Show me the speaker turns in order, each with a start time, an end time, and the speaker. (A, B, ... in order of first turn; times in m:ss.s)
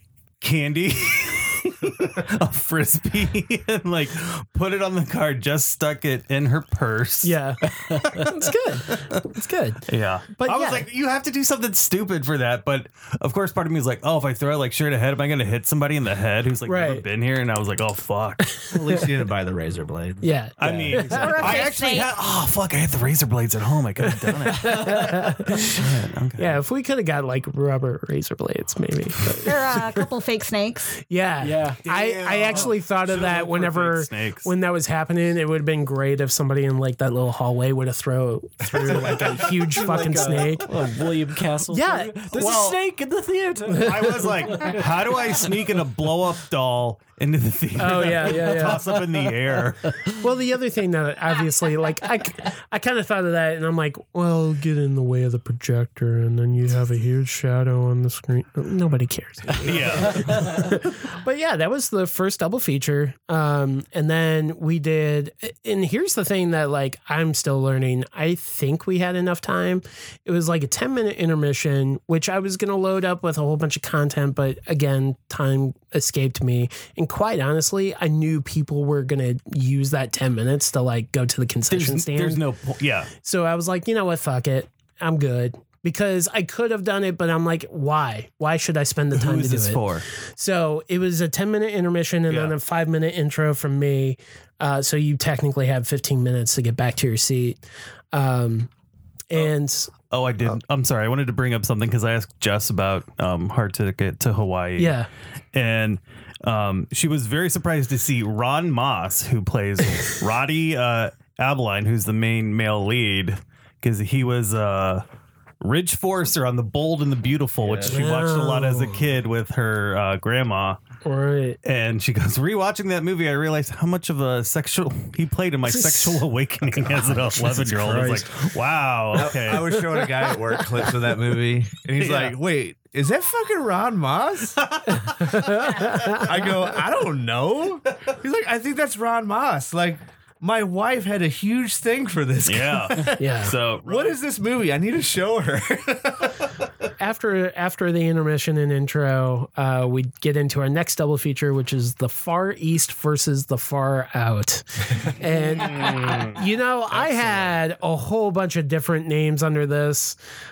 0:00.4-0:07.4 A
0:07.2-0:10.9 B
0:07.9-0:08.4 A
0:08.9-0:09.2 A
0:09.9-0:18.5 A
0:16.6-0:17.0 B
0:18.7-0:21.5 C
0:20.2-0:21.6 B
0:20.6-0:26.6 A
0:21.1-0:22.1 D
0:24.2-0:25.8 B
0:26.4-0:30.1 B
0:29.4-0:31.0 D
0:31.0-0:40.7 B
0:31.4-0:31.8 E
0:31.8-0:34.5 A
0:38.8-0:39.3 C
0:39.7-0:44.8 E
0:41.7-0:42.3 B
0:42.3-0:42.8 A
0:43.8-0:44.1 B
0:43.8-0:50.0 A
0:47.8-0:48.9 B
0:50.1-1:22.4 B
0:59.6-1:00.5 A
1:21.7-1:23.1 A
1:23.2-1:37.6 B
1:29.1-1:30.1 A
1:32.3-1:32.6 A
1:38.1-1:38.7 B
1:39.3-1:39.9 B
1:40.1-1:45.0 A
1:44.8-1:45.1 B
1:45.5-1:55.0 A
1:55.6-2:00.8 A
1:57.6-1:58.0 C
1:57.8-1:59.1 B
2:01.0-2:01.6 B
2:01.6-2:09.8 A
2:05.7-2:06.2 B
2:06.8-2:08.4 B
2:09.1-2:14.6 C
2:09.7-2:10.2 B
2:11.9-2:12.4 A
2:14.6-2:15.9 A
2:15.3-2:16.2 B
2:15.8-2:23.3 C
2:22.4-2:24.2 A
2:23.2-2:23.5 B
2:23.8-2:26.5 C
2:27.0-2:40.2 B
2:35.5-2:37.6 A